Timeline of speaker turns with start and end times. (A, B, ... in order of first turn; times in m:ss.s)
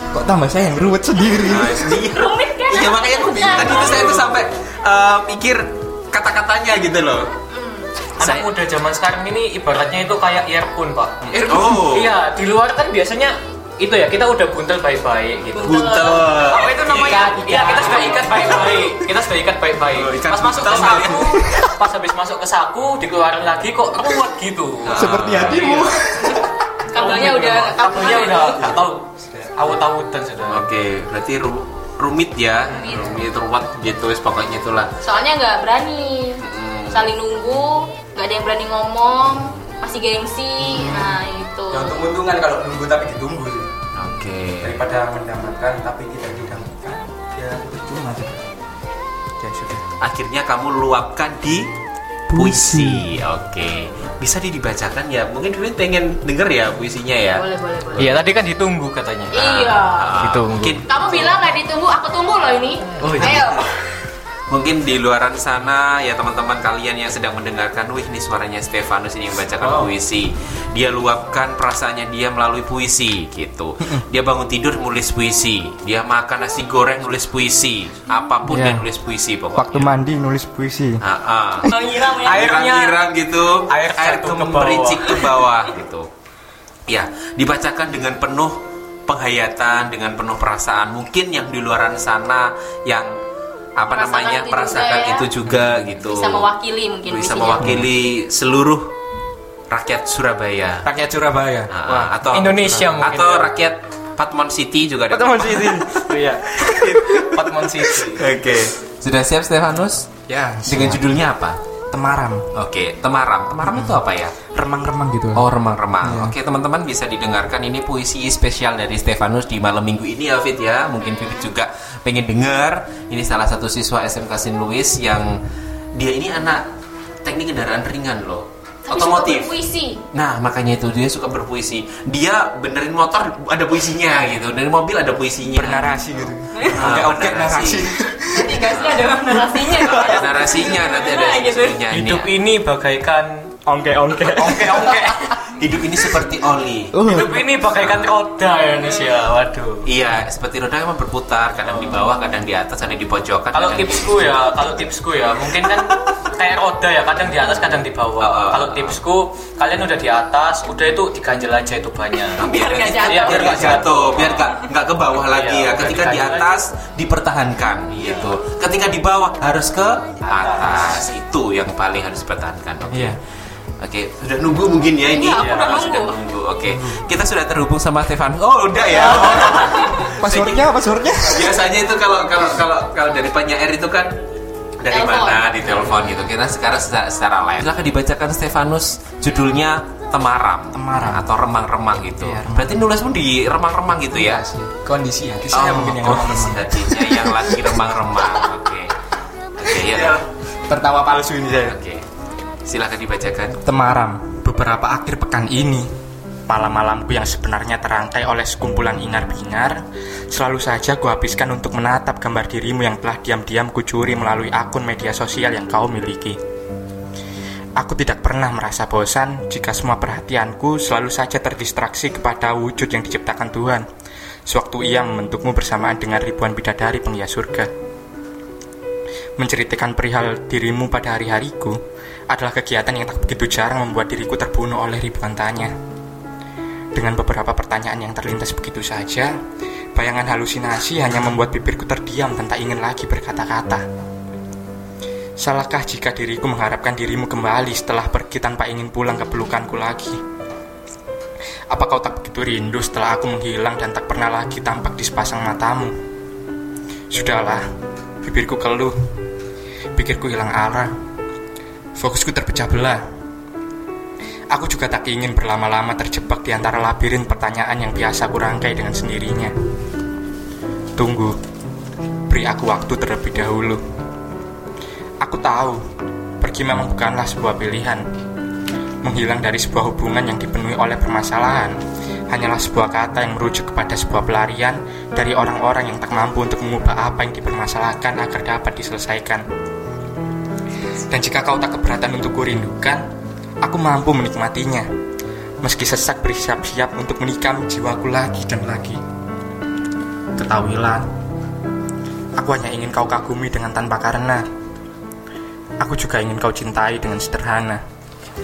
0:00.1-0:02.0 A
0:01.4-0:07.3 B
0:02.1-0:04.3 C
0:07.5-0:07.9 C
0:08.2-0:25.9 D
0:08.2-0:08.5 B
0:11.2-0:12.2 B
0:15.5-0:18.7 B
0:15.6-0:16.4 C
0:16.9-0:18.9 A
0:19.9-0:21.5 B
0:20.9-0:21.4 A
0:24.8-0:25.9 B
0:24.9-0:26.6 A
0:26.9-0:28.7 C
0:26.9-0:30.6 D
0:30.5-0:34.9 B
0:32.7-0:33.2 C
0:35.0-0:42.0 C
0:36.4-0:37.1 B
0:40.8-0:41.0 B
0:41.7-0:43.8 A
0:43.9-0:44.8 B
0:44.6-0:48.4 A
0:49.4-0:49.8 A
0:50.0-0:51.7 B
0:52.3-0:53.2 A
0:52.3-0:57.4 B
0:57.3-0:58.1 C
0:58.0-1:00.9 D
0:59.3-1:00.1 C
0:59.4-1:01.2 B
1:00.8-1:03.7 C
1:03.0-1:03.3 D
1:03.2-1:03.6 B
1:04.5-1:19.9 B
1:18.4-1:18.8 A
1:19.5-1:21.0 A
1:21.0-1:21.7 B
1:21.6-1:22.5 C
1:21.8-1:23.0 D
1:22.2-1:26.1 B
1:23.7-1:25.3 D
1:26.9-1:33.1 B
1:33.8-1:36.5 B
1:33.9-1:35.3 C
1:36.0-1:37.8 C
1:37.1-1:38.9 B
1:37.6-1:37.9 A
1:39.7-1:40.9 B
1:40.8-1:42.1 A
1:41.7-1:46.0 B
1:42.3-1:43.5 D
1:45.1-1:46.1 A
1:46.0-1:48.3 D
1:46.6-1:47.4 B
1:48.0-1:50.1 B
1:50.3-1:51.2 A
1:50.7-1:51.6 B
1:51.9-1:52.5 A
1:52.5-1:54.4 B
1:53.7-1:54.0 A
1:54.5-1:55.4 A
1:55.3-2:05.4 B
1:56.0-1:56.4 A
2:01.0-2:01.5 C
2:05.9-2:06.6 B
2:07.2-2:09.5 B
2:08.9-2:10.0 C
2:10.1-2:16.0 B
2:15.5-2:18.6 A
2:16.7-2:17.9 B
2:18.3-2:21.8 C
2:18.7-2:19.1 B
2:19.6-2:22.3 B
2:21.9-2:23.5 D
2:23.6-2:25.3 A
2:24.3-2:25.4 D
2:25.5-2:27.0 B
2:26.9-2:27.4 A
2:27.0-2:29.8 D
2:27.7-2:28.1 B
2:29.8-2:34.5 B
2:31.6-2:32.0 D
2:33.5-2:42.4 D
2:35.7-2:36.1 B
2:38.2-2:39.0 B
2:42.4-2:53.2 B
2:42.4-2:44.5 C
2:43.0-2:44.4 D
2:45.3-2:46.6 D
2:50.3-2:51.0 D
2:52.9-2:53.2 A
2:53.8-3:04.2 B
2:55.1-2:56.2 C
2:55.4-2:55.7 D
2:56.7-2:57.0 A
2:59.3-2:59.9 C
3:00.0-3:01.6 A
3:04.8-3:14.4 B
3:04.9-3:05.5 C
3:05.7-3:06.0 A
3:10.7-3:11.2 A
3:12.2-3:12.9 A
3:14.1-3:17.8 A
3:15.5-3:18.9 B
3:19.6-3:20.2 B
3:19.7-3:21.8 A
3:21.7-3:22.0 B
3:22.6-3:23.6 B
3:23.6-3:25.9 A
3:26.5-3:36.4 A
3:37.8-3:43.8 A
3:44.4-3:47.7 A
3:49.4-3:51.8 A
3:52.3-3:55.7 A
3:56.9-3:59.3 A
3:59.9-4:03.8 A
4:05.4-4:10.2 A
4:11.7-4:16.0 A
4:17.1-4:17.6 A
4:18.2-4:18.9 A
4:20.0-4:20.9 A
4:22.0-4:23.0 A
4:24.5-4:29.5 A
4:31.0-4:31.4 A
4:32.3-4:33.8 A
4:35.2-4:35.8 A
4:36.4-4:38.0 A
4:39.0-4:49.4 A
4:51.1-4:53.0 A
4:53.6-4:54.9 A
4:55.6-4:59.0 A
5:00.4-5:01.0 A
5:02.4-5:04.4 A
5:05.8-5:07.8 A